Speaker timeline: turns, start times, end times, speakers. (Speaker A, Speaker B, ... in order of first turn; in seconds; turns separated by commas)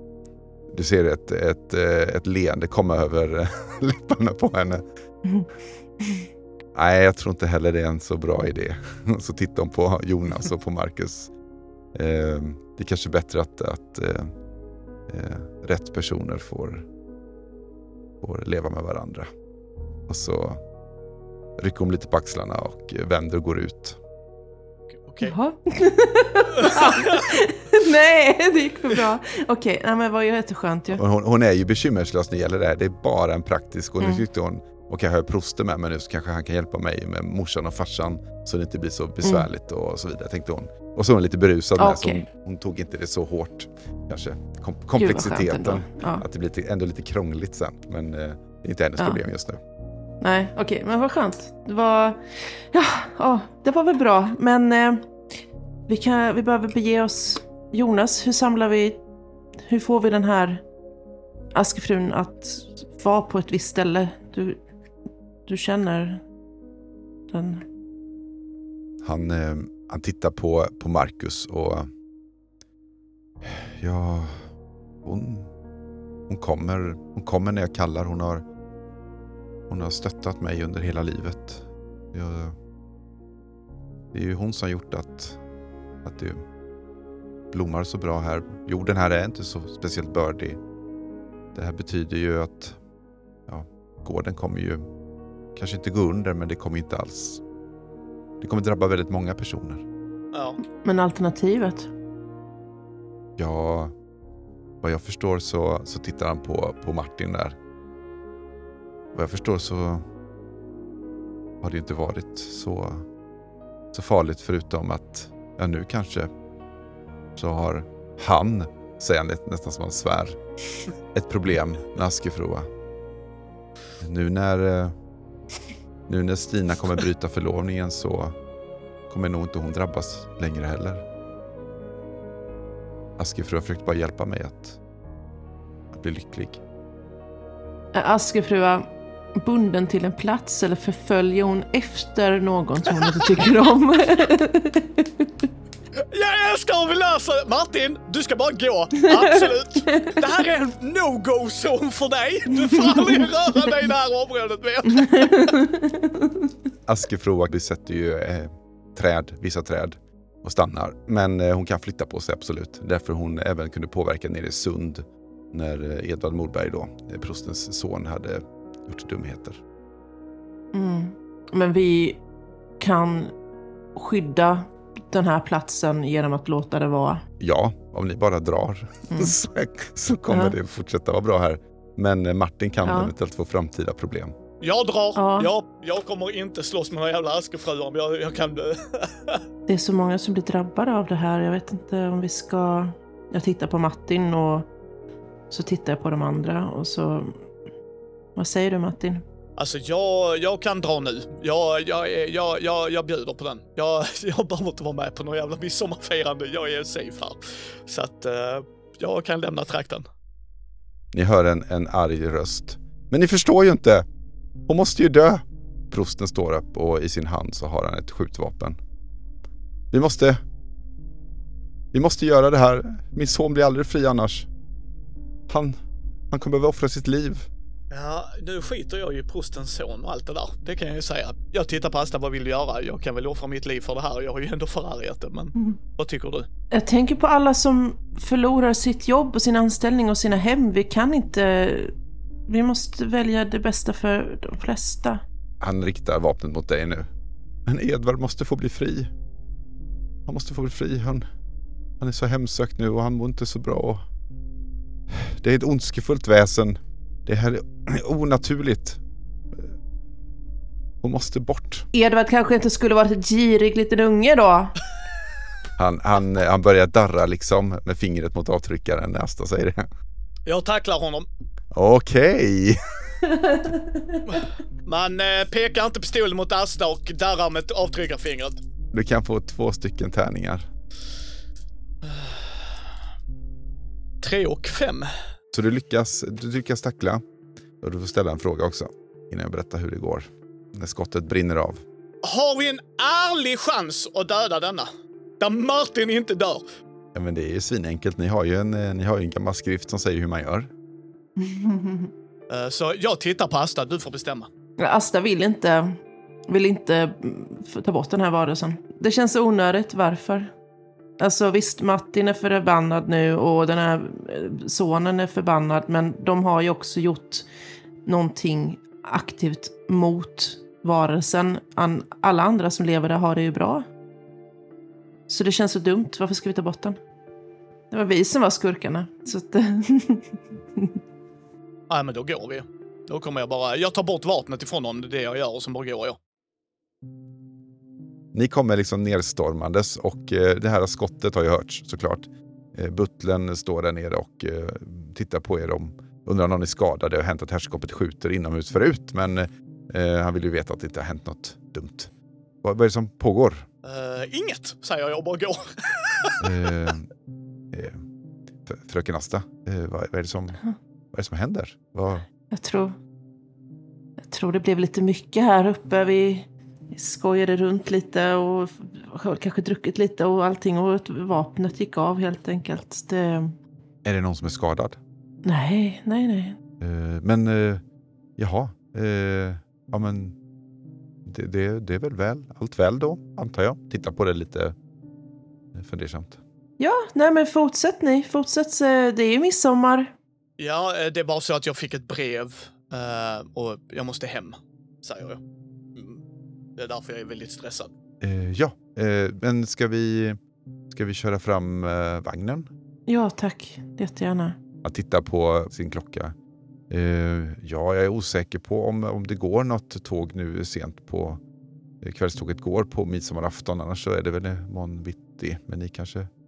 Speaker A: 0.7-4.8, Speaker B: 6.0-6.3, Speaker A: 6.7-11.3, Speaker A: 11.9-14.3, Speaker A: 15.1-16.9, Speaker A: 18.2-19.3, Speaker A: 20.1-20.6, Speaker A: 21.6-24.0, Speaker C: 24.9-25.3, Speaker B: 25.2-31.0, Speaker C: 26.6-27.3, Speaker A: 30.9-49.6, Speaker B: 41.8-42.2, Speaker B: 45.0-46.2, Speaker B: 50.2-55.1, Speaker B: 55.9-59.0, Speaker B: 59.6-60.6, Speaker B: 61.5-64.6, Speaker B: 65.5-66.2, Speaker B: 67.3-67.6, Speaker A: 69.0-71.9, Speaker A: 73.4-74.5, Speaker A: 75.0-75.5, Speaker A: 76.3-78.4, Speaker A: 79.7-82.5, Speaker A: 84.1-85.4, Speaker A: 86.0-86.4, Speaker A: 87.5-90.6, Speaker A: 91.5-92.8, Speaker A: 93.5-94.8, Speaker A: 95.5-97.4, Speaker A: 98.4-99.8, Speaker C: 100.3-100.6, Speaker B: 100.8-101.9, Speaker A: 103.4-103.9, Speaker A: 104.8-107.6, Speaker A: 109.1-110.0, Speaker A: 111.6-113.1, Speaker A: 113.9-116.3, Speaker A: 117.3-120.4, Speaker A: 121.1-122.7, Speaker A: 124.0-124.9, Speaker A: 126.1-128.3, Speaker A: 129.1-131.0, Speaker A: 133.2-134.8, Speaker A: 135.9-136.6, Speaker B: 137.9-145.4, Speaker C: 143.0-143.5, Speaker C: 146.1-155.6, Speaker B: 149.0-150.2, Speaker B: 152.7-153.3, Speaker B: 154.9-156.5, Speaker A: 156.8-169.6, Speaker B: 170.7-172.2, Speaker B: 172.8-173.3, Speaker B: 173.9-177.2, Speaker A: 177.4-184.3, Speaker B: 179.1-179.3, Speaker B: 180.3-180.5, Speaker B: 182.8-183.1, Speaker C: 184.6-189.4, Speaker B: 185.2-185.5, Speaker B: 189.7-194.7, Speaker B: 195.5-197.5, Speaker B: 198.3-199.2, Speaker C: 199.6-210.1, Speaker A: 211.1-214.1, Speaker A: 214.7-218.8, Speaker A: 219.9-220.4, Speaker A: 221.9-224.5, Speaker A: 225.5-225.8, Speaker A: 226.3-227.5, Speaker C: 227.9-236.5, Speaker B: 236.7-241.9, Speaker B: 242.5-245.2, Speaker A: 245.6-247.1, Speaker A: 247.7-249.1, Speaker A: 250.2-251.2, Speaker A: 252.0-254.0, Speaker A: 255.1-259.0, Speaker A: 261.0-261.9, Speaker B: 261.9-264.7, Speaker A: 265.8-269.9, Speaker C: 270.4-271.3, Speaker A: 271.7-273.2, Speaker B: 273.3-274.4, Speaker C: 274.3-278.6, Speaker A: 278.9-280.7, Speaker C: 282.0-282.7, Speaker C: 284.2-285.1, Speaker A: 285.5-287.2, Speaker A: 287.8-291.8, Speaker C: 292.2-294.9, Speaker C: 295.4-296.6, Speaker A: 297.1-300.7, Speaker B: 301.4-302.1, Speaker C: 302.5-304.5, Speaker B: 304.8-310.5, Speaker B: 311.2-317.5, Speaker B: 318.0-323.9, Speaker B: 325.3-327.0, Speaker B: 327.9-331.0, Speaker C: 331.9-336.2, Speaker A: 338.3-352.1, Speaker A: 352.6-353.7, Speaker C: 353.8-356.5, Speaker A: 356.4-357.1, Speaker A: 357.7-358.0, Speaker A: 358.6-360.6, Speaker A: 361.1-362.3, Speaker B: 362.5-363.0, Speaker B: 364.2-373.6, Speaker A: 374.0-375.0, Speaker B: 375.4-376.6, Speaker A: 376.8-377.8, Speaker A: 378.4-380.4, Speaker A: 381.2-384.8, Speaker A: 385.7-386.4, Speaker B: 386.8-390.1, Speaker C: 390.6-395.4, Speaker C: 395.9-396.2, Speaker C: 396.8-397.9, Speaker A: 398.2-400.4, Speaker A: 400.9-402.7, Speaker B: 403.1-404.6, Speaker A: 404.8-406.3, Speaker A: 406.9-411.4, Speaker A: 412.0-416.3